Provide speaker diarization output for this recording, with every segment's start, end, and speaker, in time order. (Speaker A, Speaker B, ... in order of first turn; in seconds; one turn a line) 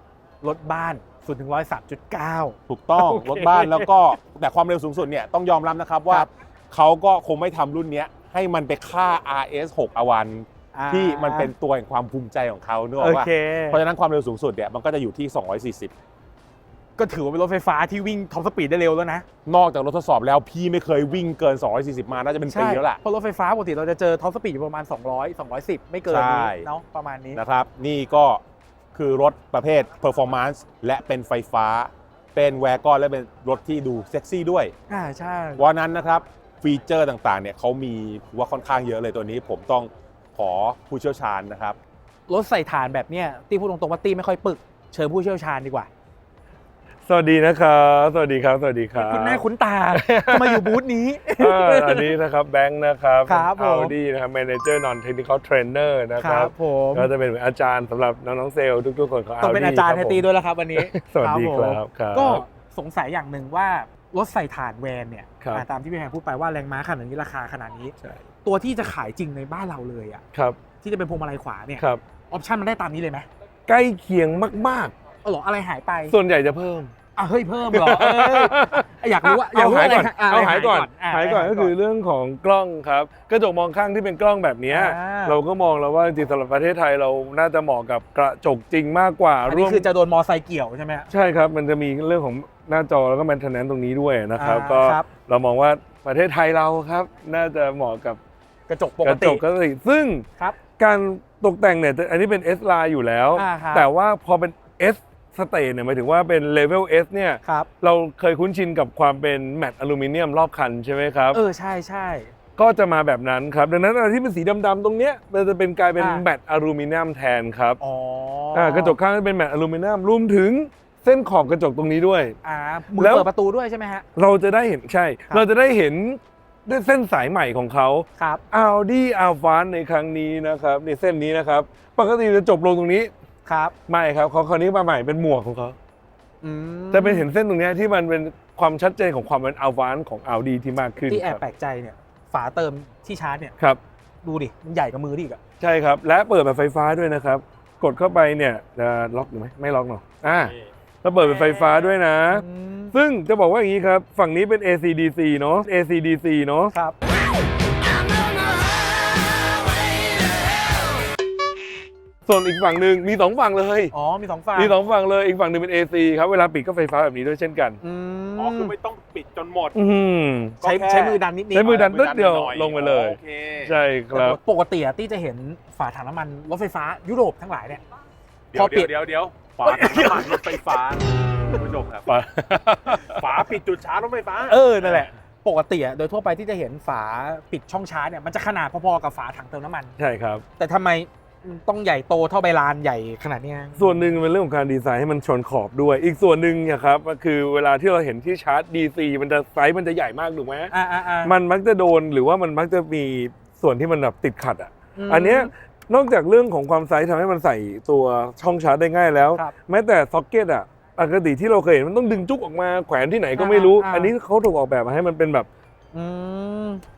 Speaker A: 0.4-3.9
Speaker B: 2.7-15.9
Speaker A: 10.7-11.5
Speaker A: 13.0-13.8
Speaker A: 17.0-19.2
Speaker B: 19.4-23.0
Speaker A: 22.5-27.4
Speaker B: 26.1-26.7
Speaker B: 27.4-28.4
Speaker B: 28.9-34.7
Speaker A: 34.9-35.6
Speaker B: 35.6-41.8
Speaker A: 42.3-45.9
Speaker C: 47.0-50.8
Speaker A: 49.0-52.1
Speaker C: 51.4-62.4
Speaker A: 53.2-53.9
Speaker A: 56.2-57.1
Speaker A: 59.4-70.2
Speaker A: 70.8-73.3
Speaker C: 73.7-74.9
Speaker A: 75.2-76.2
Speaker C: 76.1-76.9
Speaker A: 77.2-81.7
Speaker C: 77.7-89.9
Speaker A: 84.7-85.4
Speaker A: 89.5-91.1
Speaker C: 91.1-98.2
Speaker A: 94.4-95.1
Speaker A: 98.7-99.4
Speaker C: 99.0-100.3
Speaker C: 100.8-111.4
Speaker A: 103.3-103.9
Speaker A: 107.4-107.7
Speaker A: 111.3-112.3
Speaker C: 112.6-117.8
Speaker A: 116.0-116.2
Speaker A: 117.8-119.0
Speaker C: 118.5-122.4
Speaker A: 122.4-124.0
Speaker C: 123.0-123.3
Speaker C: 124.2-133.1
Speaker A: 128.2-128.4
Speaker A: 133.4-133.7
Speaker C: 133.9-135.8
Speaker A: 136.4-137.3
Speaker C: 136.9-141.4
Speaker A: 141.1-143.6
Speaker A: 144.2-145.4
Speaker C: 145.6-156.7
Speaker A: 151.4-151.8
Speaker A: 152.3-153.0
Speaker A: 156.7-157.0
Speaker C: 162.2-163.9
Speaker A: 163.9-164.7
Speaker C: 164.6-167.8
Speaker A: 167.8-168.7
Speaker B: 168.4-169.8
Speaker C: 169.7-170.6
Speaker A: 170.6-171.9
Speaker B: 170.6-173.7
Speaker C: 171.5-174.4
Speaker A: 174.1-177.8
Speaker B: 178.5-182.1
Speaker A: 178.5-178.9
Speaker A: 179.6-180.8
Speaker C: 182.1-183.3
Speaker B: 183.0-185.1
Speaker A: 184.5-189.9
Speaker C: 190.0-190.4
Speaker A: 190.6-194.1
Speaker C: 193.8-215.5
Speaker A: 200.7-201.3
Speaker A: 204.9-205.5
Speaker A: 213.3-214.1
Speaker A: 215.9-216.8